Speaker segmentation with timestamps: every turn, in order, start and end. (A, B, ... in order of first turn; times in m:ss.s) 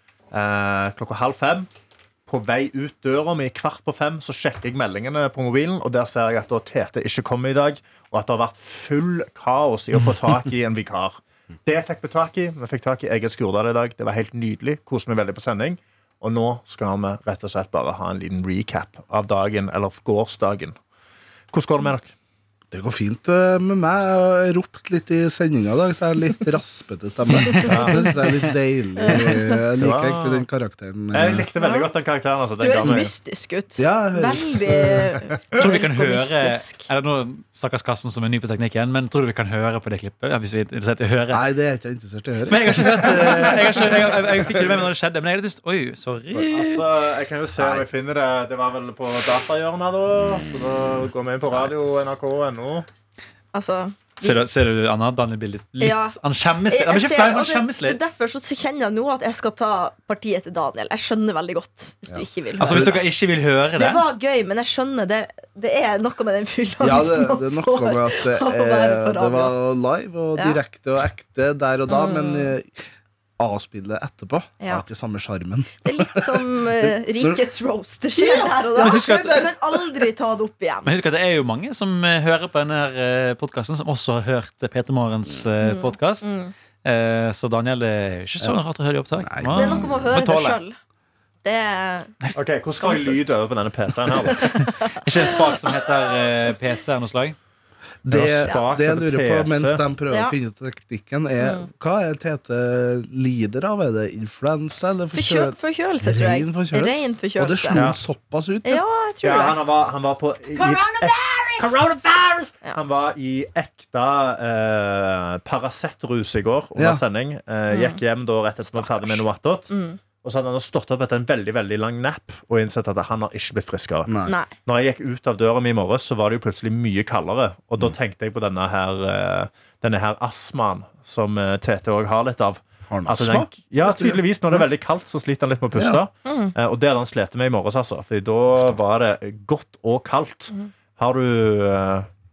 0:00.3-0:01.7 A
0:02.3-0:20.8 A
0:21.5-0:22.1 A
0:22.7-0:31.5 B
0:27.5-0:28.2 A
0:29.0-0:29.6 C
0:29.8-0:30.4 A
0:31.1-0:33.1 A
0:31.6-0:31.9 C
0:32.6-0:36.9 C
0:33.8-0:35.2 B
0:35.6-0:41.4 D
0:41.3-0:44.2 B
0:42.5-0:46.8 D
0:46.3-0:52.9 A
0:47.6-0:47.8 B
0:53.5-0:54.4 C
0:54.2-0:58.0 D
0:55.8-0:56.2 C
0:56.7-1:03.0 C
1:02.1-1:03.0 B
1:02.6-1:04.0 D
1:03.8-1:09.6 C
1:06.8-1:12.8 B
1:11.9-1:12.5 C
1:13.4-1:17.4 B
1:14.6-1:14.8 C
1:15.8-1:20.9 C
1:18.2-1:20.0 B
1:18.8-1:19.5 D
1:20.8-1:30.6 D
1:25.6-1:26.5 C
1:29.2-1:30.0 B
1:29.5-1:30.8 C
1:31.4-1:32.1 C
1:32.3-1:34.7 A
1:32.7-1:33.2 C
1:34.4-1:34.8 C
1:34.9-1:37.4 D
1:38.0-1:48.8 B
1:38.1-1:39.8 A
1:41.4-1:41.7 C
1:45.1-1:47.8 C
1:47.7-1:48.0 A
1:48.6-1:49.6 C
1:49.2-1:59.7 A
1:56.8-1:57.0 B
1:57.7-1:58.0 C
1:58.8-1:59.1 C
1:59.7-2:00.0 C
2:00.2-2:04.1 A
2:04.1-2:04.3 B
2:04.2-2:04.5 C
2:04.6-2:22.1 A
2:12.9-2:14.6 B
2:15.7-2:16.0 B
2:16.2-2:16.5 C